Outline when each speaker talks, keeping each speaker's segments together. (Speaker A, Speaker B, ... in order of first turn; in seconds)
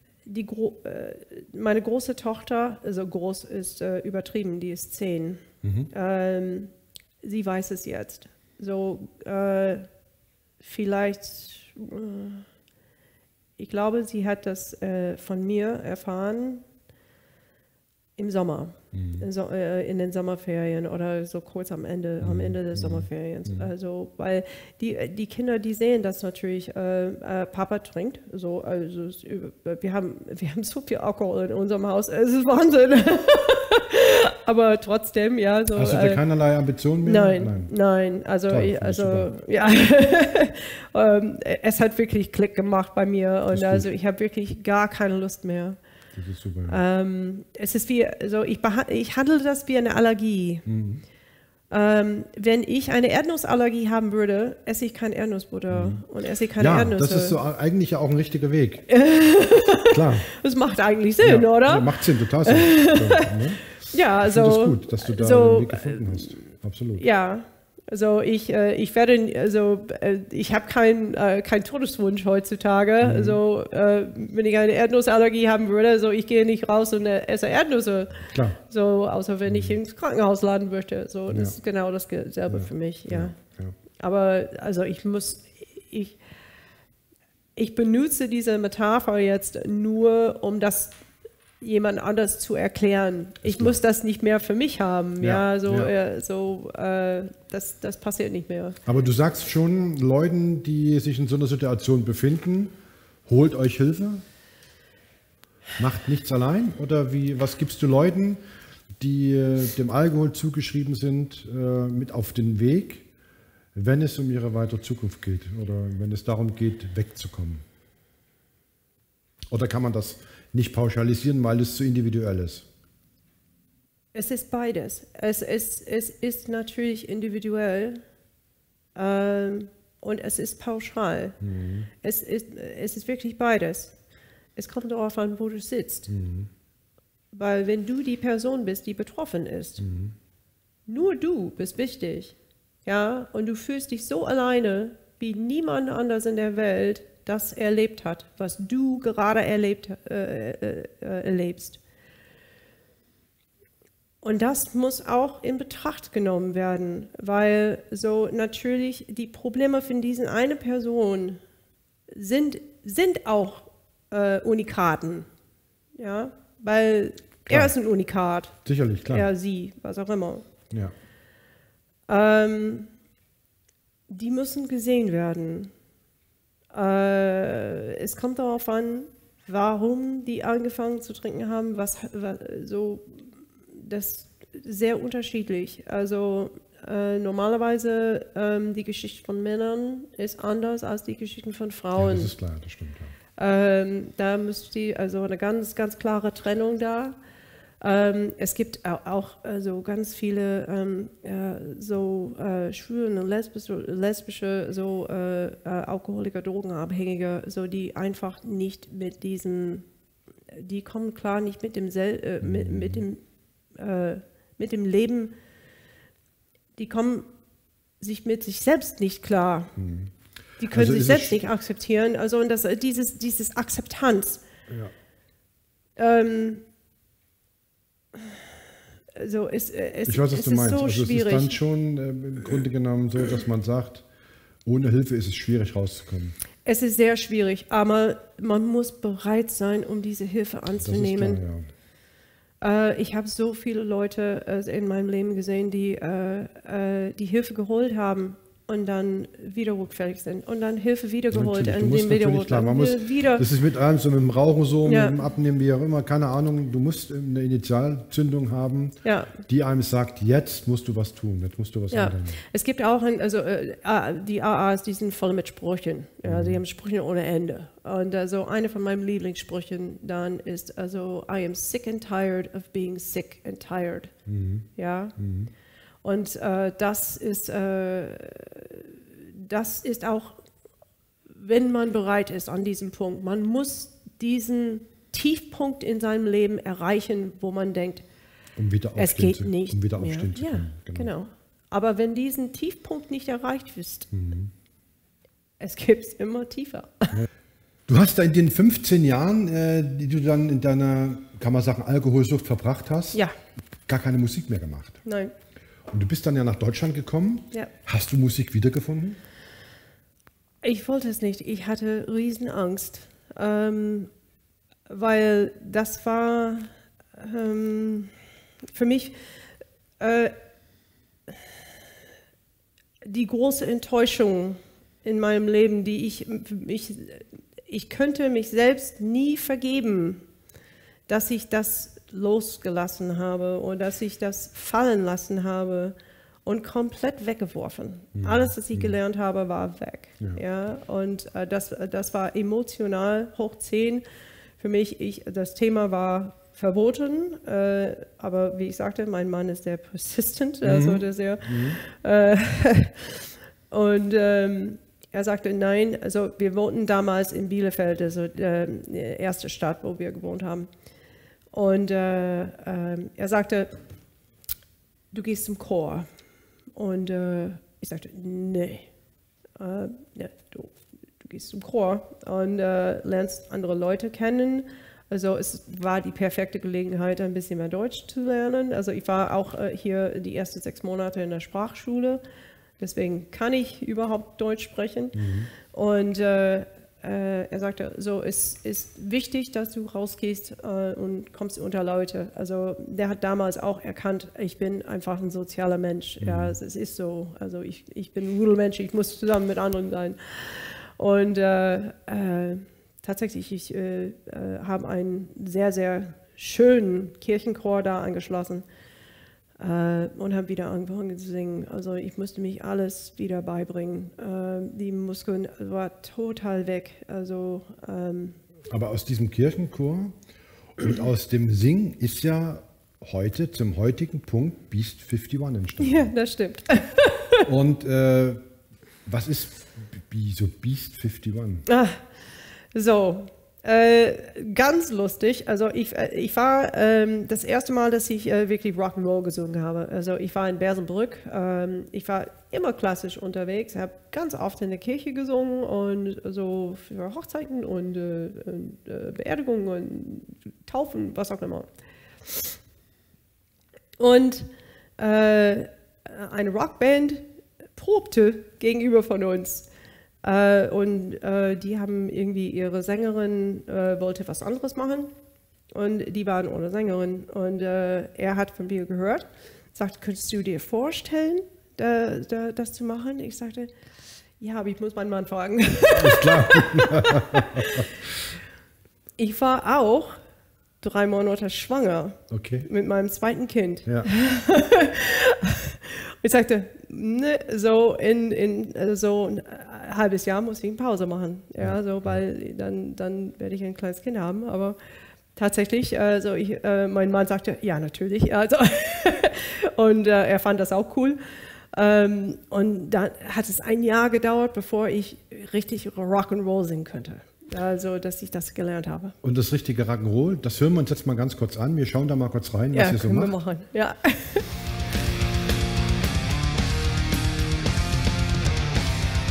Speaker A: 0.3-9.9, 10.6-12.5, 13.6-16.6, 18.2-36.2, 37.1-45.8, 46.7-50.6, 51.7-57.4, 58.9-63.3, 63.9-66.4, 67.0-83.4, 84.0-86.2, 87.6-91.0, 91.6-98.8, 124.1-128.0, 128.9-131.4, 132.0-134.0, 134.6-136.1, 137.3-139.8, 140.9-151.8, 154.2-161.4, 162.1-165.3, 166.0-168.6, 169.1-170.5, 172.1-172.9, 174.1-175.7, 176.7-192.3, 193.4-197.2, 197.8-209.8, 210.5-213.2, 213.8-215.3, 216.8-217.3, 218.0-219.7, 220.6-224.4, 226.0-226.6, 229.2-231.6, 236.7-241.4, 242.6-253.4, 254.9-255.2, 259.0-259.4, 261.9-274.1, 274.8-275.1, 276.0-280.4, 281.4-288.0, 289.0-294.1, 295.6-297.1, 305.1-305.3, 310.6-314.1, 314.9-318.1, 318.7-319.2, 320.0-320.4, 323.0-330.2, 331.1-344.0, 344.6-360.7, 361.5-363.8, 365.1-366.1, 366.8-368.9, 369.6-382.2, 382.8-385.2, 385.7-408.6, 409.6-418.4, 425.8-427.5, 431.7-432.0, 432.7-451.7, 454.0-459.7, 460.2-465.1, 465.7-473.7, 474.4-477.9, 479.2-480.2, 480.8-494.8, 495.4-501.2, 501.7-509.1, 512.7-514.5
Speaker B: 5.6-5.9, 18.9-19.2, 22.2-23.7, 35.7-37.7, 38.5-39.3, 43.5-43.9, 46.2-46.8, 50.7-51.0, 55.7-56.0, 56.6-58.9, 59.9-60.3, 61.2-67.1, 73.0-73.4, 78.3-78.6, 79.5-79.8, 81.3-81.6, 82.5-83.8, 93.4-93.8, 95.2-95.9, 98.9-102.8, 103.3-104.2, 105.8-108.4, 109.0-113.1, 113.8-117.6, 119.5-122.7, 131.4-131.9, 136.1-136.5, 139.8-140.2, 167.5-167.7, 168.7-169.3, 192.0-193.2, 212.4-213.1, 219.8-220.1, 220.7-221.4, 230.1-234.1, 234.7-236.3, 240.8-241.7, 251.3-262.4, 266.2-266.6, 274.3-275.5, 288.6-291.1, 294.1-294.5, 297.9-303.2, 303.9-305.0, 305.9-309.2, 338.2-338.9, 350.6-351.8, 385.1-385.5, 396.2-396.6, 418.7-420.1, 420.8-426.1, 427.5-428.4, 429.1-431.6, 475.9-477.9, 482.3-482.7, 491.6-492.2, 509.2-513.4